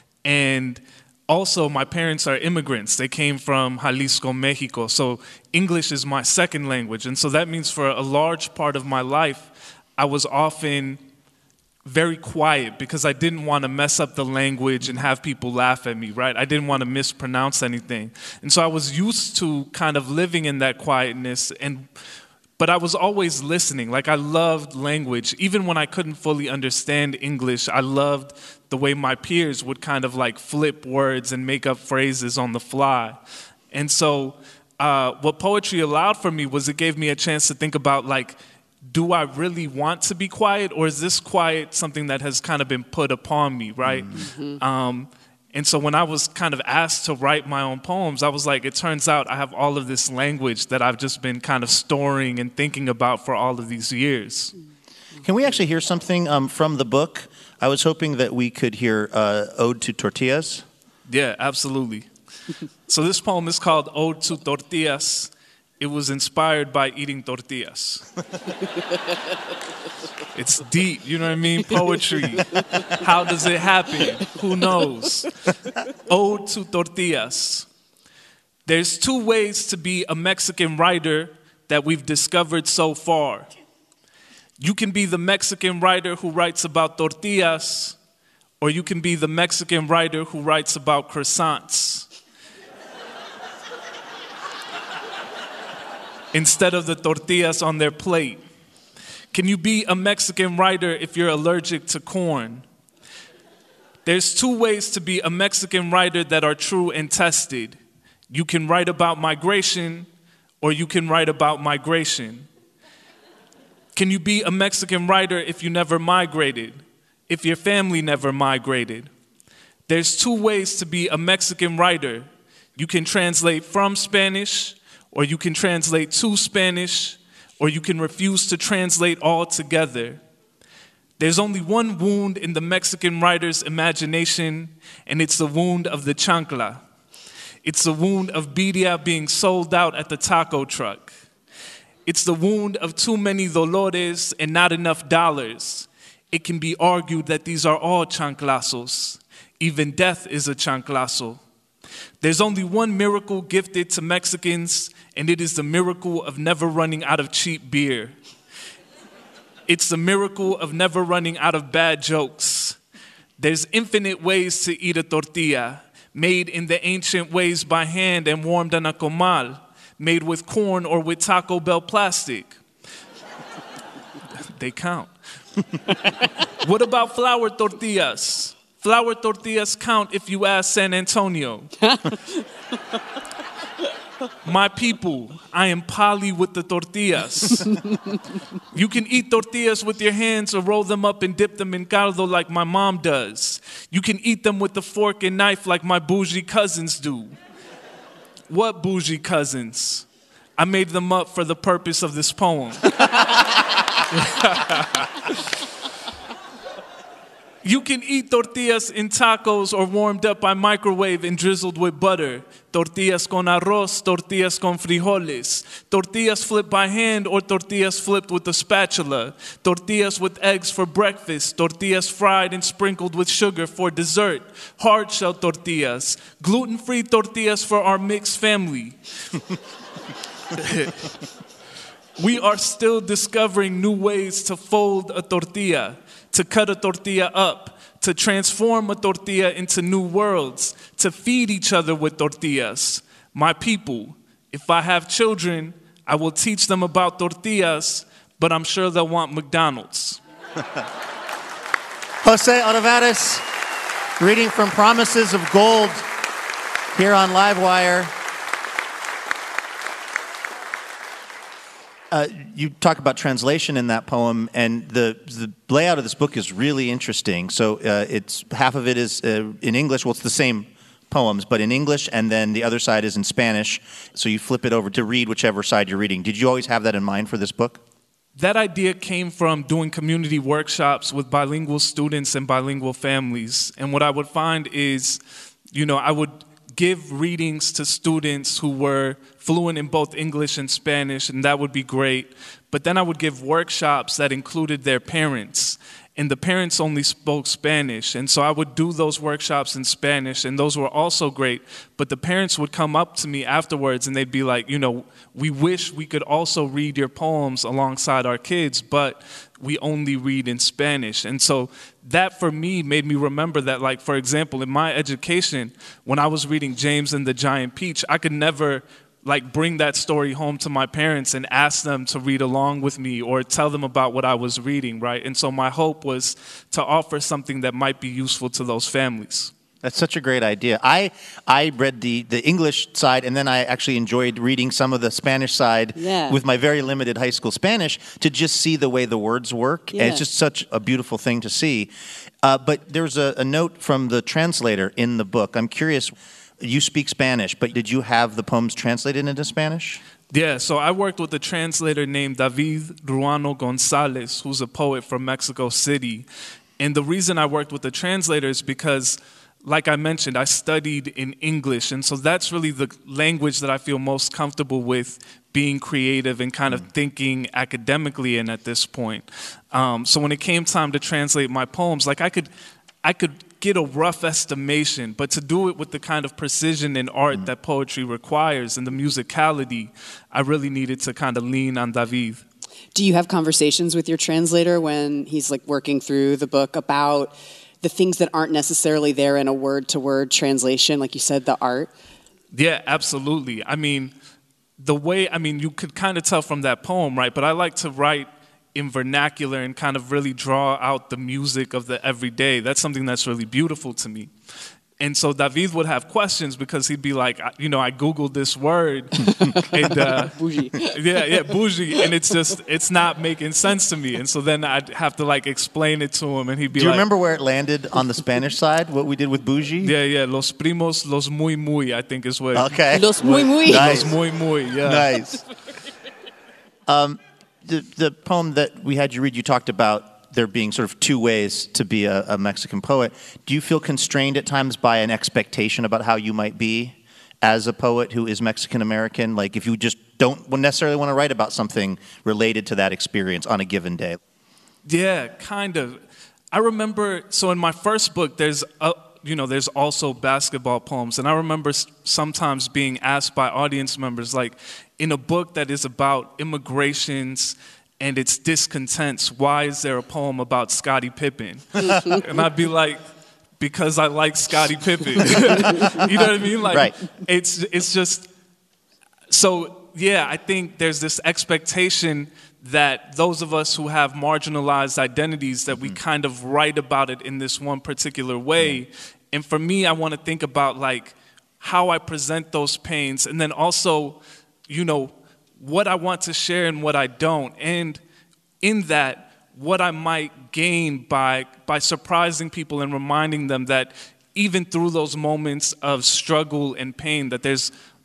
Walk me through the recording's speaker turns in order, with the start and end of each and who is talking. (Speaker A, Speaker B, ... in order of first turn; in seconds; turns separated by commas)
Speaker A: 0.2-11.0, Speaker A: 11.8-21.9, Speaker A: 22.6-33.2, Speaker A: 33.7-54.5, Speaker B: 43.8-44.2, Speaker C: 44.1-44.6, Speaker B: 55.2-60.6, Speaker A: 61.1-62.1, Speaker A: 62.9-68.1, Speaker A: 70.3-77.7, Speaker A: 78.7-83.5, Speaker A: 84.6-88.0, Speaker A: 88.6-92.1, Speaker A: 96.3-98.4, Speaker A: 99.3-102.6, Speaker A: 104.0-107.8, Speaker A: 108.3-110.1, Speaker A: 110.6-112.5, Speaker A: 113.9-119.1, Speaker A: 119.9-130.2, Speaker A: 131.2-136.8, Speaker A: 137.6-141.1, Speaker A: 142.1-151.4, Speaker A: 152.2-158.2, Speaker A: 159.7-162.8, Speaker A: 163.4-172.6, Speaker A: 174.3-175.1, Speaker A: 176.1-181.7, Speaker A: 184.4-187.7, Speaker A: 188.7-197.3, Speaker A: 198.5-200.1, Speaker A: 200.6-203.4, Speaker A: 204.1-205.2, Speaker A: 207.6-229.4, Speaker A: 230.5-231.1, Speaker A: 232.2-250.2, Speaker B: 252.2-253.5, Speaker B: 254.2-256.1, Speaker B: 256.9-258.1, Speaker B: 262.1-277.8, Speaker A: 278.4-285.2, Speaker A: 285.7-329.5, Speaker B: 329.8-341.9, Speaker C: 335.9-336.4, Speaker C: 339.9-340.2, Speaker B: 342.4-350.0, Speaker A: 350.3-356.2, Speaker A: 356.8-372.5, Speaker A: 373.0-382.4, Speaker C: 382.9-391.9, Speaker A: 392.5-394.1, Speaker A: 394.8-404.3, Speaker A: 405.0-417.0, Speaker C: 409.4-410.9, Speaker B: 416.7-419.9, Speaker A: 419.8-425.2, Speaker B: 422.5-424.2, Speaker C: 422.9-424.1, Speaker B: 424.8-425.4, Speaker B: 426.9-444.2, Speaker A: 444.8-446.0, Speaker A: 446.5-463.0, Speaker A: 463.6-468.3, Speaker B: 466.6-466.9, Speaker A: 469.3-488.0, Speaker A: 488.6-497.7